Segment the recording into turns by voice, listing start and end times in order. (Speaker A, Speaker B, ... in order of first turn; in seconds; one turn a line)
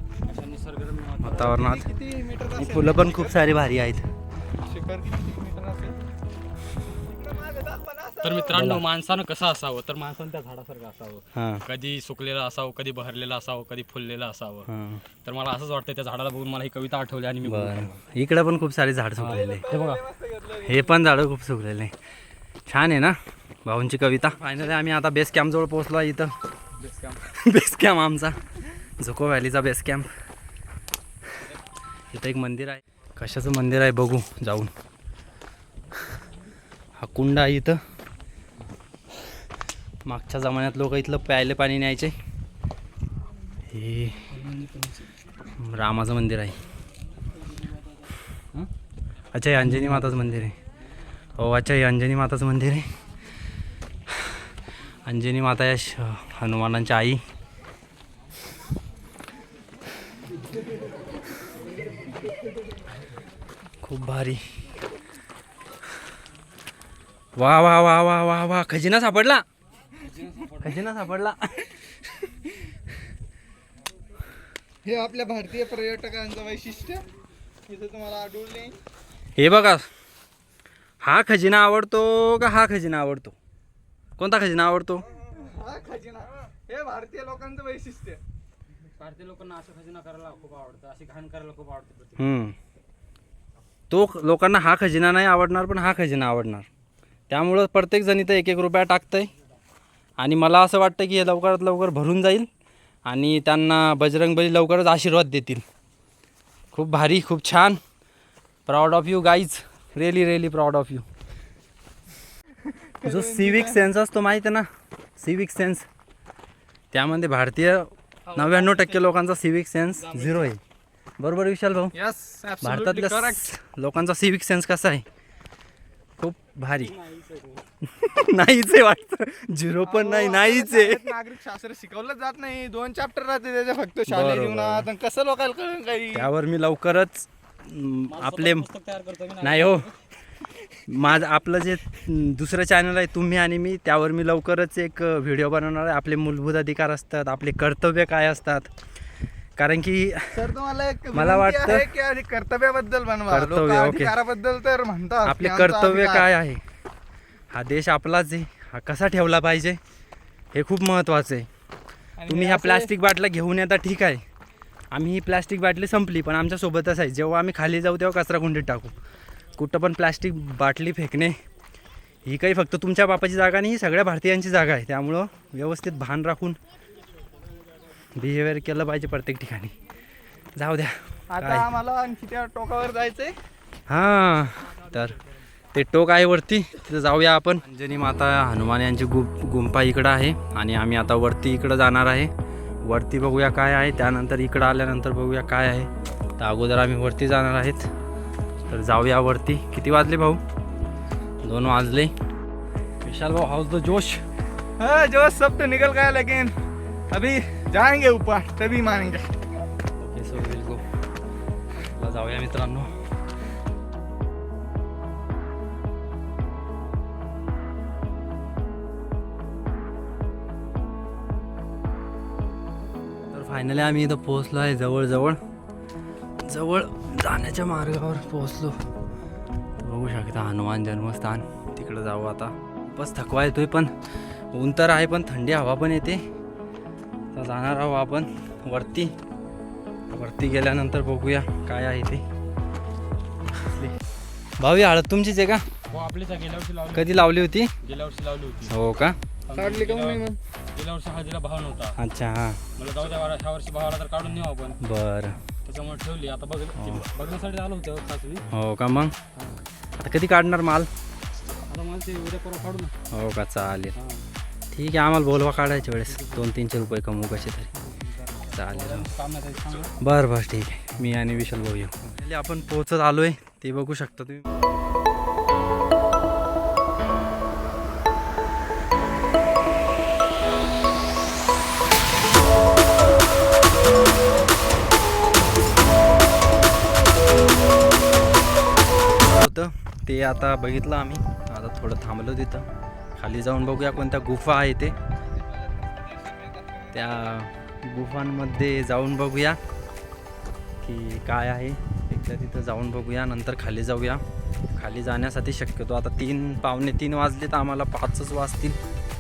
Speaker A: 0.3-1.7
Speaker B: 1.2-1.9
Speaker C: 1.4-3.4
Speaker B: 2.6-4.1
Speaker C: 4.6-6.0
Speaker C: 7.0-8.5
Speaker A: 8.2-14.7
Speaker B: 8.5-8.9
Speaker B: 11.3-11.6
Speaker B: 14.7-15.0
Speaker A: 15.2-17.9
Speaker B: 17.5-19.7
Speaker A: 19.2-20.0
Speaker C: 19.3-20.9
Speaker B: 20.6-21.9
Speaker B: 22.7-26.3
Speaker B: 27.2-30.1
Speaker B: 32.1-34.7
Speaker B: 37.0-37.8
Speaker B: 40.1-42.2
Speaker B: 43.7-44.3
Speaker A: 44.3-45.1
Speaker B: 45.6-46.6
Speaker B: 49.3-50.6
Speaker A: 49.6-50.2
Speaker B: 51.4-52.9
Speaker B: 54.1-54.4
Speaker B: 55.0-57.2
Speaker B: 63.8-64.4
Speaker B: 67.4-69.4
Speaker A: 70.0-70.8
Speaker B: 70.6-71.8
Speaker C: 74.8-77.0
Speaker C: 77.7-78.8
Speaker B: 79.4-79.9
Speaker B: 81.0-83.4
Speaker B: 84.2-85.0
Speaker C: 85.3-88.2
Speaker A: 89.0-92.2
Speaker B: 92.2-92.6
Speaker B: 93.9-96.7
Speaker B: 97.3-99.3
Speaker B: 100.2-102.5
Speaker B: 103.1-105.6
Speaker B: 106.7-107.8
Speaker B: 108.7-111.1
Speaker C: 112.7-113.8
Speaker B: 113.0-114.7
Speaker B: 115.2-115.9
Speaker B: 116.9-120.6
Speaker A: 118.5-119.0
Speaker B: 121.2-121.9
Speaker C: 122.0-123.5
Speaker B: 122.6-125.0
Speaker B: 126.2-127.0
Speaker A: 126.8-127.6
Speaker B: 127.8-131.1
Speaker C: 129.8-136.3
Speaker B: 134.1-134.9
Speaker B: 136.1-138.7
Speaker A: 138.1-140.0
Speaker B: 139.4-139.9
Speaker B: 140.9-148.7
Speaker B: 149.6-150.4
Speaker C: 150.3-156.3
Speaker B: 151.1-151.9
Speaker B: 153.3-154.2
Speaker B: 155.2-156.6
Speaker B: 157.5-159.8
Speaker B: 160.5-161.5
Speaker C: 162.2-162.9
Speaker B: 162.3-164.2
Speaker B: 164.9-168.9
Speaker B: 169.6-171.4
Speaker B: 172.2-176.6
Speaker B: 178.2-179.7
Speaker B: 180.6-181.7
Speaker C: 181.3-183.3
Speaker B: 183.9-185.2
Speaker B: 185.7-192.3
Speaker B: 192.8-197.9
Speaker B: 198.7-200.4
Speaker B: 201.4-202.1
Speaker B: 203.0-204.2
Speaker C: 204.8-206.6
Speaker C: 207.1-209.3
Speaker B: 210.0-210.8
Speaker B: 211.9-213.0
Speaker B: 223.3-225.4
Speaker B: 226.4-228.8
Speaker B: 229.8-233.9
Speaker B: 234.5-236.2
Speaker B: 237.3-239.2
Speaker B: 240.1-242.2
Speaker B: 243.5-244.0
Speaker B: 244.6-245.6
Speaker A: 245.9-248.7
Speaker B: 246.9-247.7
Speaker B: 248.7-249.2
Speaker A: 249.5-252.0
Speaker C: 249.6-250.4
Speaker B: 252.0-252.6
Speaker A: 252.8-254.8
Speaker B: 254.8-255.4
Speaker A: 255.7-258.4
Speaker B: 256.8-257.1
Speaker B: 258.5-259.1
Speaker B: 260.0-260.9
Speaker A: 261.7-262.9
Speaker B: 263.1-264.0
Speaker A: 264.0-264.2
Speaker B: 264.7-267.7
Speaker A: 266.1-266.5
Speaker A: 267.9-269.9
Speaker B: 268.5-269.1
Speaker B: 270.0-274.4
Speaker B: 289.2-292.6
Speaker B: 293.2-295.0
Speaker C: 295.5-296.9
Speaker B: 296.9-299.6
Speaker B: 300.8-308.8